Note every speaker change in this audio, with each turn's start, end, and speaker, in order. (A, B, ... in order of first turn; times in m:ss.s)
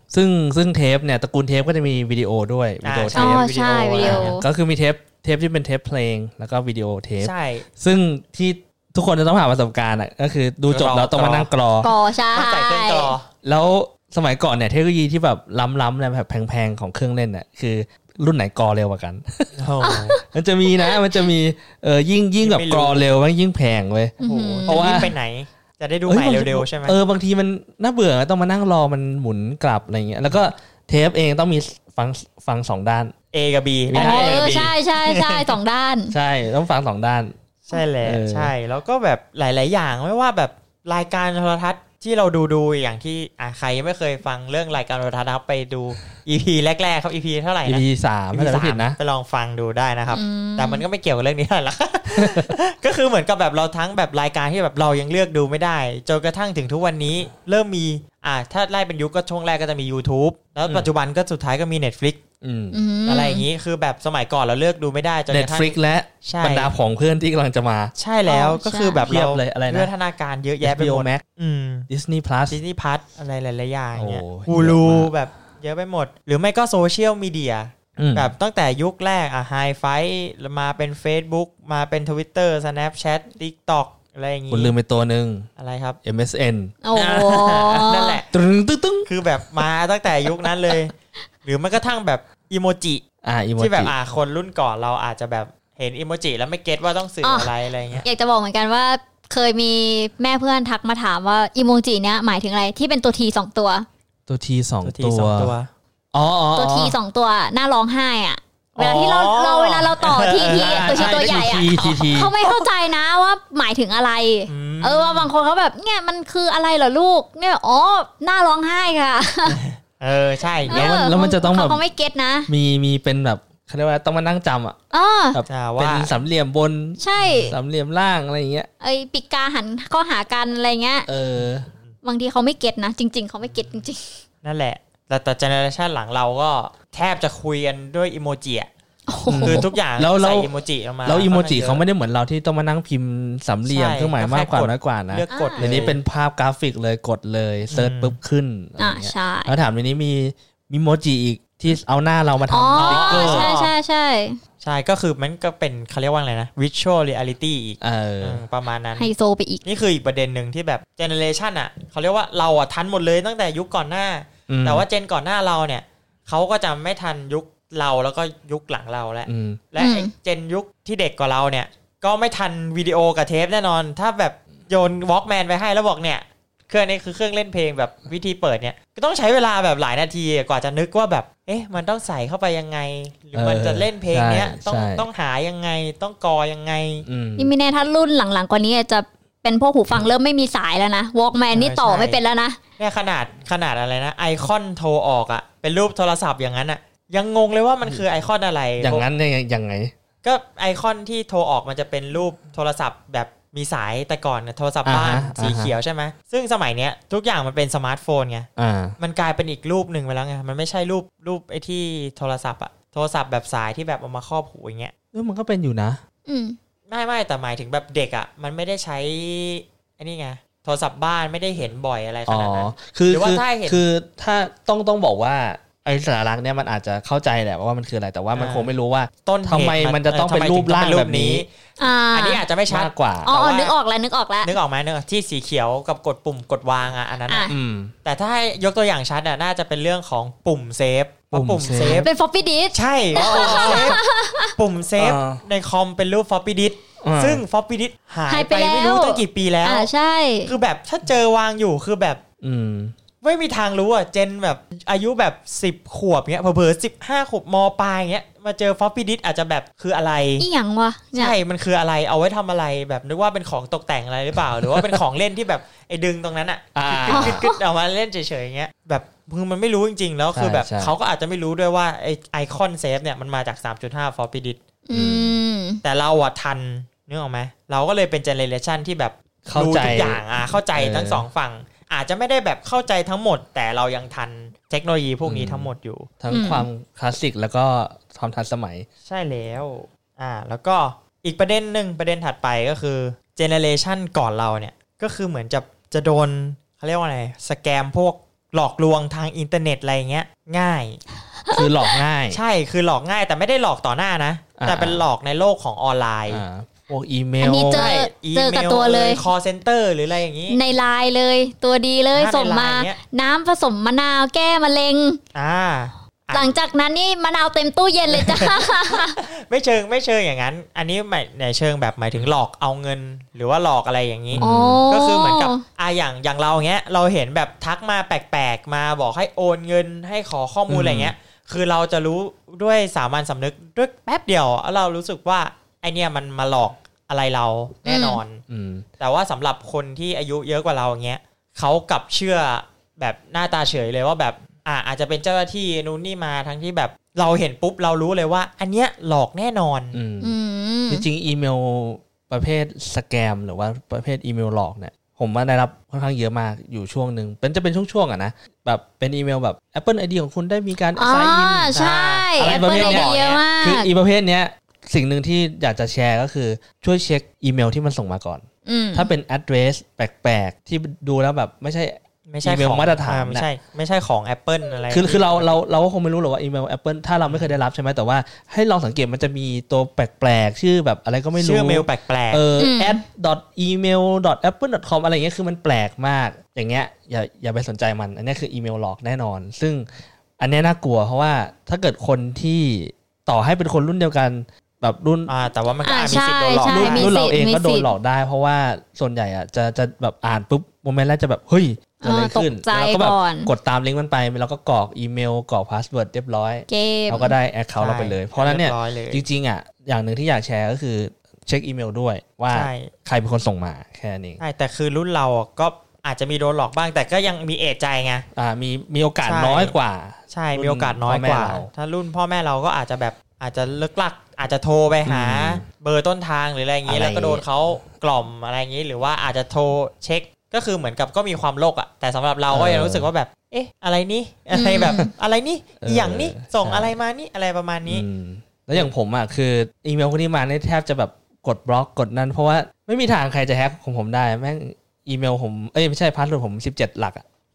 0:00.1-0:03.5 A
0:02.8-0:04.4 B
0:03.2-0:04.4 C
0:04.0-0:11.9 A
0:07.2-0:07.7 B
0:10.7-0:11.5 B
0:11.8-0:13.1 C
0:12.3-0:13.3 B
0:13.4-0:19.6 A
0:19.6-0:20.2 B
0:19.8-0:20.2 C
0:20.3-0:24.1 A
0:22.4-0:23.0 B
0:24.2-0:25.0 C
0:24.2-0:27.0 B
0:24.7-0:25.1 A
0:26.1-0:33.1 A
0:33.3-0:35.6 B
0:33.9-0:34.7 A
0:33.9-0:36.2 C
0:36.1-0:37.3 A
0:37.7-1:02.2 B
0:38.0-0:38.5 A
0:47.6-0:49.0 A
0:50.1-0:50.8 C
0:52.2-0:52.6 A
1:02.4-1:02.8 A
1:02.7-1:03.4 C
1:03.1-1:06.7 B
1:05.3-1:07.9 A
1:08.0-1:11.9 B
1:08.3-1:09.0 C
1:09.0-1:09.9 A
1:10.6-1:11.2 A
1:11.9-1:12.6 A
1:12.5-1:24.7 B
1:14.0-1:15.1 A
1:18.0-1:18.3 A
1:24.5-1:25.5 A
1:25.6-1:26.0 B
1:26.0-1:26.8 A
1:26.8-1:28.2 C
1:27.0-1:28.3 B
1:28.3-1:29.6 A
1:29.1-1:30.9 B
1:31.4-1:33.0 B
1:33.2-1:33.9 A
1:33.6-1:38.1 B
1:37.2-1:37.5 C
1:38.0-1:43.9 C
1:44.3-1:45.5 A
1:44.8-1:45.7 B
1:46.1-1:47.0 A
1:46.6-1:59.6 C
1:48.8-1:51.4 B
1:50.5-1:52.3 A
1:54.5-1:55.3 B
1:59.5-2:01.0 B
2:00.7-2:01.8 A
2:00.7-2:02.5 C
2:02.5-2:04.8 A
2:04.9-2:05.4 C
2:05.3-2:08.7 A
2:05.5-2:06.1 B
2:07.0-2:07.6 C
2:07.2-2:07.6 B
2:08.8-2:11.1 C
2:11.1-2:11.7 A
2:12.0-2:14.2 C
2:14.4-2:18.7 B
2:19.1-2:19.7 C
2:19.3-2:20.5 A
2:19.4-2:21.8 B
2:21.0-2:33.5 A
2:23.7-2:26.0 B
2:25.3-2:25.8 C
2:27.7-2:28.2 B
2:28.8-2:29.5 C
2:32.5-2:34.4 C
2:32.8-2:33.7 B
2:34.6-2:39.1 B
2:37.8-2:38.4 A
2:39.0-2:39.6 C
2:39.6-3:07.0 B
2:44.5-2:44.8 A
2:49.3-2:49.6 A
2:49.8-2:50.1 C
3:03.3-3:05.1 A
3:07.0-3:07.5 A
3:07.4-3:12.6 C
3:11.5-3:12.2 B
3:12.8-3:19.1 B
3:18.8-3:19.9 A
3:20.2-3:28.5 B
3:24.8-3:25.8 A
3:28.6-3:29.0 A
3:29.0-3:34.9 B
3:35.1-3:36.0 A
3:36.3-3:36.6 C
3:36.9-3:43.8 B
3:42.3-3:51.5 A
3:48.3-3:48.7 B
3:49.2-3:51.5 B
3:51.8-3:52.4 C
3:52.1-3:53.7 B
3:52.7-3:53.3 A
3:53.2-3:54.6 C
3:54.4-3:57.5 B
3:57.3-3:57.6 C
3:57.5-3:57.9 A
3:58.0-4:02.1 B
4:01.3-4:02.1 A
4:01.8-4:04.5 C
4:02.7-4:04.0 B
4:03.1-4:04.0 A
4:04.6-4:09.9 B
4:05.0-4:05.4 A
4:07.0-4:07.4 A
4:08.3-4:10.5 C
4:10.4-4:12.2 B
4:12.4-4:12.9 A
4:13.2-4:20.5 B
4:20.4-4:21.4 C
4:21.1-4:34.6 B
4:24.7-4:25.0 A
4:26.8-4:27.4 A
4:27.1-4:27.6 C
4:30.3-4:30.9 A
4:34.9-4:35.8 C
4:34.9-4:35.4 A
4:35.8-4:46.1 B
4:39.4-4:40.2 A
4:40.7-4:41.2 A
4:45.2-4:48.9 A
4:46.3-4:46.7 C
4:49.1-5:01.0 B
5:01.5-5:02.4 A
5:02.3-5:06.4 B
5:04.6-5:05.0 A
5:06.3-5:08.0 A
5:07.4-5:09.2 C
5:07.7-5:10.6 B
5:10.5-5:15.2 C
5:12.1-5:13.0 B
5:15.4-5:16.6 B
5:16.3-5:19.2 C
5:18.1-5:38.4 B
5:24.3-5:24.8 A
5:24.4-5:25.6 C
5:30.7-5:31.1 A
5:37.9-5:38.2 C
5:38.5-5:38.9 A
5:39.0-5:50.0 B
5:49.9-5:50.4 A
5:50.2-5:51.0 C
5:50.9-6:13.5 A
6:01.0-6:03.9 C
6:01.7-6:03.4 B
6:08.6-6:09.1 C
6:12.3-6:15.5 B
6:14.9-6:29.9 A
6:17.2-6:17.5 B
6:21.4-6:22.4 B
6:22.6-6:23.0 C
6:30.4-6:35.3 A
6:35.3-6:37.1 B
6:35.8-6:37.9 C
6:36.7-6:54.4 A
6:42.0-6:43.5 C
6:46.7-6:47.4 C
6:47.8-6:49.2 B
6:52.5-6:52.9 B
6:54.4-6:58.2 B
6:58.4-7:01.7 A
6:59.2-6:59.8 B
7:00.3-7:18.1 B
7:05.1-7:05.6 A
7:06.8-7:07.4 A
7:12.5-7:13.1 A
7:14.5-7:15.1 C
7:14.8-7:15.1 A
7:15.8-7:17.0 A
7:17.9-7:27.2 A